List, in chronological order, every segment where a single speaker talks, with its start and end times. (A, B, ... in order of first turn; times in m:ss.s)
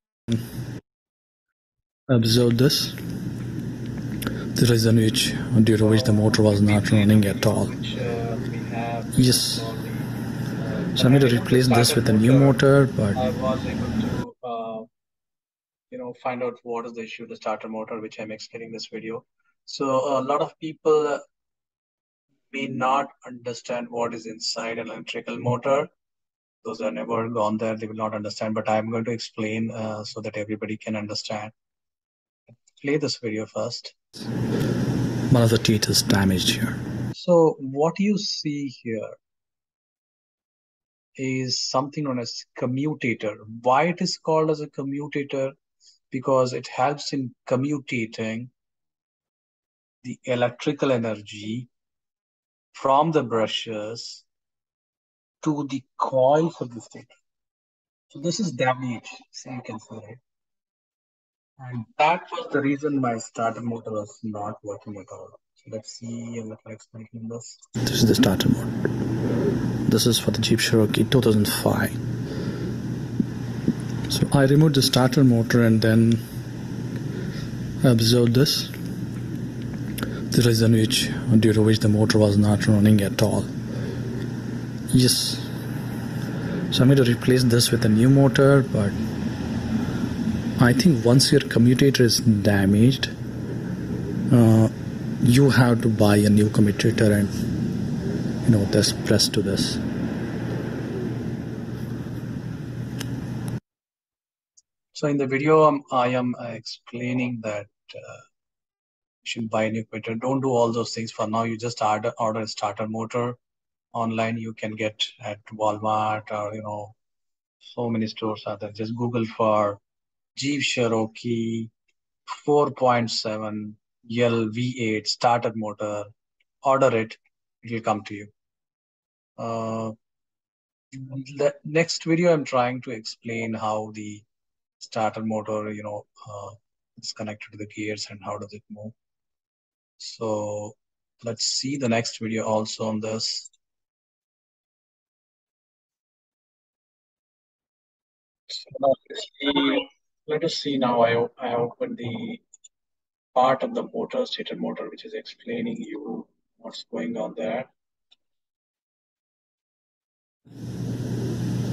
0:02.1-0:03.0 A
0:04.6-0:07.7 A
0:05.8-0:12.6 B
0:09.2-0:09.7 A
0:11.0-0:13.2 A
0:13.1-0:14.9 B
0:15.9-0:21.2 B
0:22.5-0:25.9 B
0:26.6-0:31.5 B
0:32.8-0:33.9 B
0:35.3-0:36.8 A
0:37.1-0:39.2 B
0:41.2-0:45.6 B
0:46.1-0:48.5 B
0:50.0-0:51.7 B
0:52.7-0:54.2 B
0:55.4-0:57.1 B
0:58.1-1:00.2 B
1:01.6-1:07.6 B
1:07.8-1:08.7 A
1:09.9-1:12.0 A
1:14.1-1:16.2 A
1:17.8-1:18.7 A
1:20.3-1:23.5 A
1:24.9-1:25.5 A
1:26.7-1:29.0 A
1:30.6-1:33.1 A
1:34.3-1:37.3 A
1:38.4-1:39.8 A
1:44.9-1:48.2 B
1:49.2-1:53.4 B
1:53.9-1:56.9 B
1:57.6-1:59.8 B
2:00.4-2:01.7 B
2:02.3-2:06.1 B
2:06.6-2:08.3 B
2:09.4-2:09.9 B
2:10.9-2:14.2 B
2:14.8-2:18.9 B
2:20.0-2:23.5 B
2:28.6-2:32.4 B
2:33.3-2:37.7 B